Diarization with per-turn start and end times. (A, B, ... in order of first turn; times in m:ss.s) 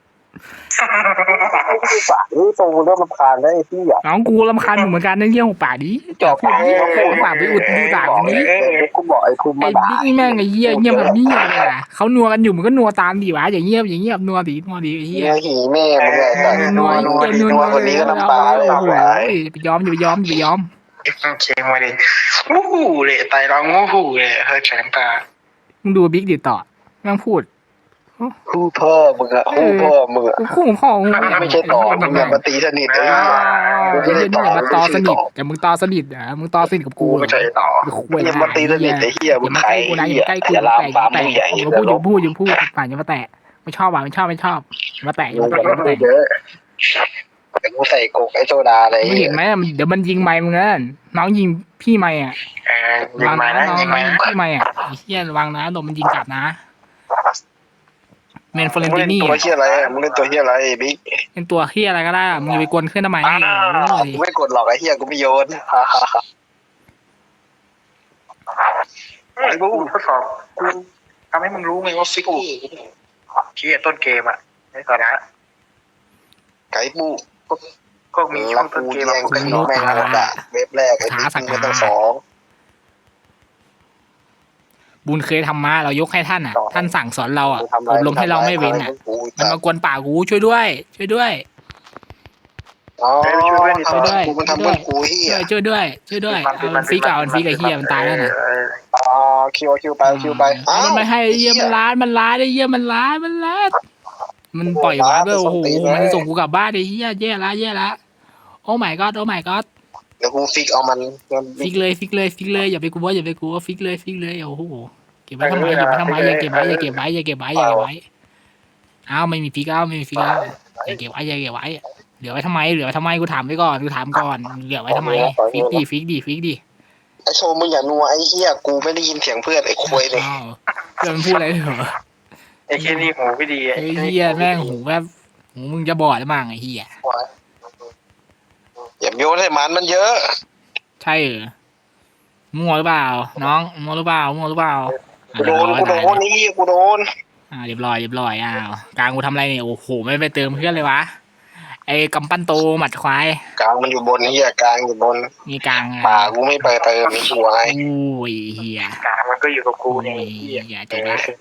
0:00.8-0:01.8 A
0:01.3-0:04.0 B
0:04.0-0:08.5 C
0:06.2-0:11.7 B
0:06.4-0:08.9 A
0:09.6-0:15.4 C
0:15.1-0:19.4 B
0:16.0-0:19.0 A
0:16.3-0:20.7 C
0:21.1-0:25.2 A
0:25.8-0:27.5 C
0:28.5-0:30.4 B
0:29.5-0:32.4 C
0:31.2-0:32.3 A
0:31.2-0:35.2 B
0:32.9-0:34.8 A
0:33.1-0:46.1 C
0:37.0-0:42.1 B
0:45.3-0:46.2 B
0:47.6-0:49.4 B
0:49.0-0:52.4 C
0:52.6-0:54.3 A
0:53.2-0:56.6 C
0:58.5-0:59.4 C
0:58.6-1:01.0 B
0:59.4-1:00.4 A
1:01.4-1:04.2 C
1:03.2-1:06.2 B
1:09.4-1:10.8 A
1:09.4-1:09.9 B
1:11.3-1:12.8 A
1:13.5-1:15.2 A
1:16.7-1:17.2 B
1:18.1-1:20.0 A
1:18.3-1:22.2 B
1:19.3-1:20.4 C
1:21.0-1:21.9 C
1:25.0-1:31.4 C
1:26.5-1:26.9 B
1:27.5-1:29.6 B
1:33.0-1:35.4 B
1:33.2-1:34.3 A
1:33.9-1:38.3 C
1:36.3-1:38.8 A
1:38.9-1:41.8 B
1:40.0-1:43.8 C
1:44.5-1:48.0 C
1:44.7-1:46.2 B
1:48.6-1:49.6 C
1:50.2-1:51.7 B
1:51.6-1:58.0 C
1:55.4-1:56.8 A
1:57.6-1:57.9 B
1:59.1-2:06.6 C
2:04.9-2:05.8 B
2:07.2-2:10.3 B
2:09.9-2:12.0 C
2:12.7-2:14.2 A
2:12.8-2:13.1 C
2:13.8-2:16.9 C
2:14.0-2:14.7 B
2:19.0-2:20.2 B
2:21.0-2:21.5 C
2:22.5-2:26.2 C
2:25.4-2:27.1 B
2:27.5-2:31.1 C
2:31.9-2:33.4 C
2:33.6-2:35.3 B
2:35.4-2:36.7 C
2:36.0-2:37.8 B
2:37.0-2:37.3 A
2:37.6-2:39.0 C
2:39.0-2:41.2 A
2:39.9-2:41.2 C